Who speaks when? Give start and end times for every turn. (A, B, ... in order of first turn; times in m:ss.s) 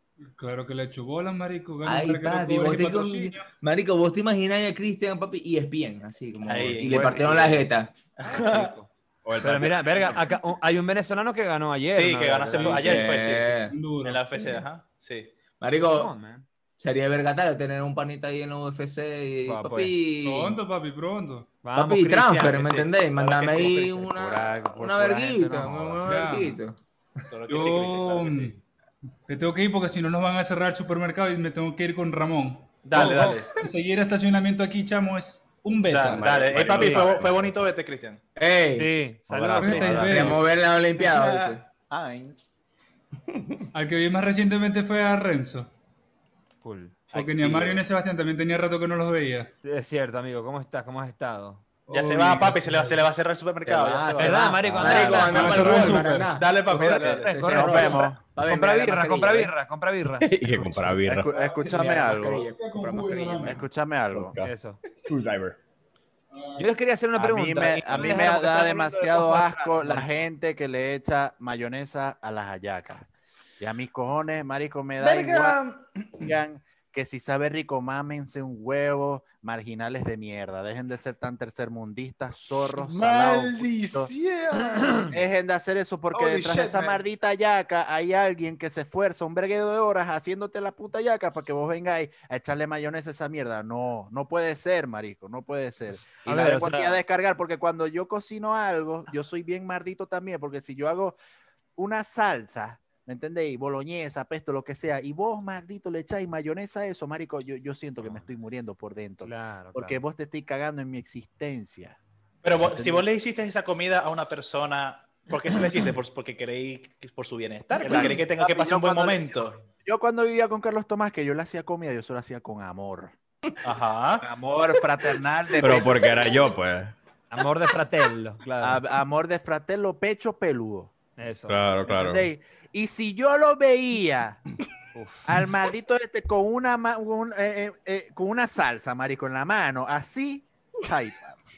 0:00.4-0:03.5 A
0:01.8-0:07.9 B
0:06.4-0:07.2 C
0:06.8-0:07.7 D
0:08.2-0:08.8 C
0:08.2-0:13.0 D
0:09.2-0:10.2 E
0:11.9-0:15.3 C
0:12.6-0:13.0 A
0:12.8-0:13.8 B
0:13.7-0:14.6 A
0:15.6-0:16.1 B
0:15.9-0:16.5 D
0:16.8-0:20.6 B
0:19.4-0:20.0 D
0:20.2-0:21.5 A
0:21.6-0:22.9 D
0:21.8-0:27.2 B
0:23.2-0:23.7 C
0:23.4-0:26.1 F
0:26.0-0:26.6 A
0:27.3-0:28.6 C
0:27.5-0:28.6 A
0:29.3-0:36.5 A
0:32.8-0:33.5 C
0:35.9-0:38.2 C
0:36.0-0:37.7 E
0:36.7-0:37.1 D
0:38.4-0:38.9 B
0:38.8-0:40.4 D
0:39.3-0:40.3 E
0:39.6-0:40.4 A
0:39.8-0:41.6 B
0:41.0-0:42.4 C
0:43.3-0:43.6 E
0:43.7-0:45.7 A
0:46.6-0:47.2 D
0:47.1-0:49.5 A
0:47.2-0:47.7 C
0:49.6-0:51.7 D
0:51.9-0:53.0 A
0:51.9-0:57.3 C
0:53.6-0:59.5 B
0:54.2-0:56.0 D
0:54.7-0:55.0 E
0:55.2-0:56.3 A
0:56.7-1:01.0 D
0:57.4-0:58.2 F
1:00.2-1:01.3 E
1:01.0-1:02.5 F
1:01.4-1:03.6 B
1:02.4-1:03.6 A
1:03.4-1:04.4 F
1:04.1-1:05.6 E
1:04.4-1:04.8 D
1:06.6-1:10.1 D
1:07.2-1:13.1 F
1:13.6-1:15.6 F
1:15.0-1:16.3 C
1:16.2-1:24.1 F
1:22.8-1:25.1 C
1:24.8-1:25.1 D
1:25.1-1:41.2 F
1:26.1-1:27.0 C
1:36.2-1:37.0 D
1:41.8-1:52.0 F
1:49.2-1:50.0 D
1:52.4-1:59.6 C
1:52.6-1:53.1 F
1:57.8-2:03.2 F
2:03.6-2:04.2 C
2:04.2-2:06.4 F
2:05.6-2:07.0 E
2:07.3-2:08.8 D
2:08.6-2:10.9 F
2:11.2-2:11.6 D
2:11.5-2:12.3 E
2:11.9-2:14.4 F
2:15.0-2:15.3 D
2:15.3-2:21.4 F